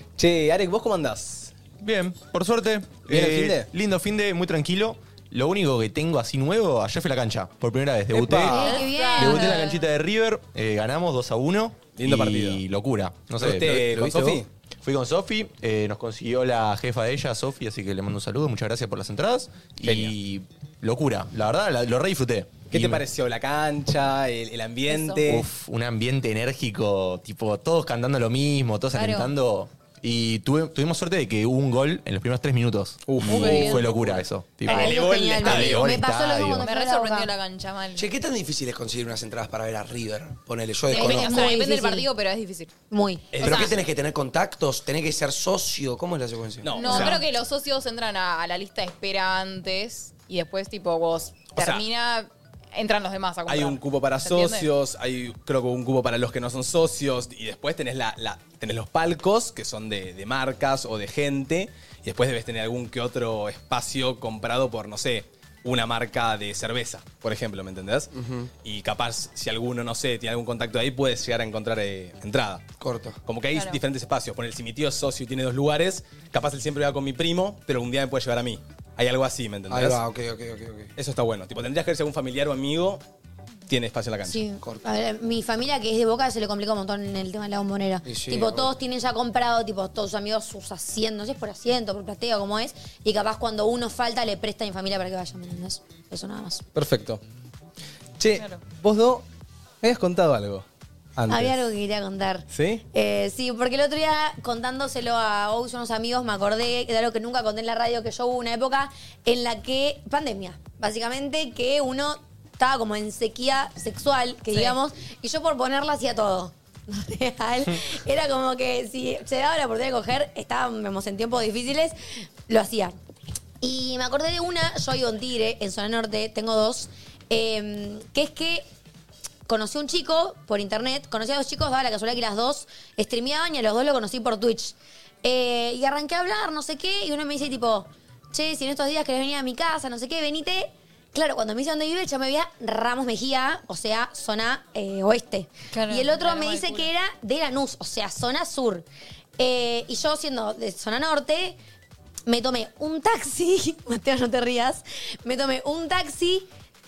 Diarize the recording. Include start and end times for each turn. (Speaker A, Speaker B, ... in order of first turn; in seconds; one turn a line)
Speaker A: 0.2-1.6
Speaker B: 1.8-14.0
Speaker A: 3.1-3.7
Speaker A: 8.1-8.6
Speaker C: 8.5-9.7
Speaker D: 8.5-9.8
Speaker A: 12.0-12.6
Speaker A: 13.4-14.5
Speaker E: 13.4-14.4
Speaker B: 14.8-23.0
Speaker A: 19.8-20.1
Speaker A: 22.7-25.5
Speaker D: 24.9-25.2
Speaker B: 25.2-36.7
Speaker D: 28.9-29.3
Speaker A: 33.1-36.0
Speaker D: 33.2-33.9
Speaker C: 34.7-37.3
Speaker D: 36.6-38.1
Speaker E: 38.0-41.6
Speaker D: 40.9-42.7
Speaker C: 40.9-42.1
Speaker C: 42.9-43.3
Speaker A: 43.3-43.8
Speaker D: 43.4-43.7
Speaker E: 43.4-47.1
Speaker A: 46.6-47.2
Speaker D: 46.8-54.7
Speaker A: 51.5-51.8
Speaker A: 53.5-68.1
Speaker E: 68.1-68.5
Speaker A: 68.6-72.6
Speaker E: 72.8-73.2
Speaker A: 73.3-80.0
Speaker D: 73.5-73.8
Speaker E: 79.7-80.9
Speaker A: 81.0-83.0
Speaker A: 83.7-84.4
Speaker C: 84.2-96.6
Speaker E: 88.1-88.7
Speaker A: 96.8-97.2
Speaker A: 98.2-99.2
Speaker A: 99.8-100.7
Speaker A: 101.2-101.6
Speaker C: 101.3-122.0
Speaker A: 102.5-102.8
Speaker C: 122.5-123.0
Speaker C: 123.6-128.7
Speaker C: 129.5-148.9
Speaker D: 145.7-146.9
Speaker C: 149.4-151.6
Speaker C: 152.3-156.5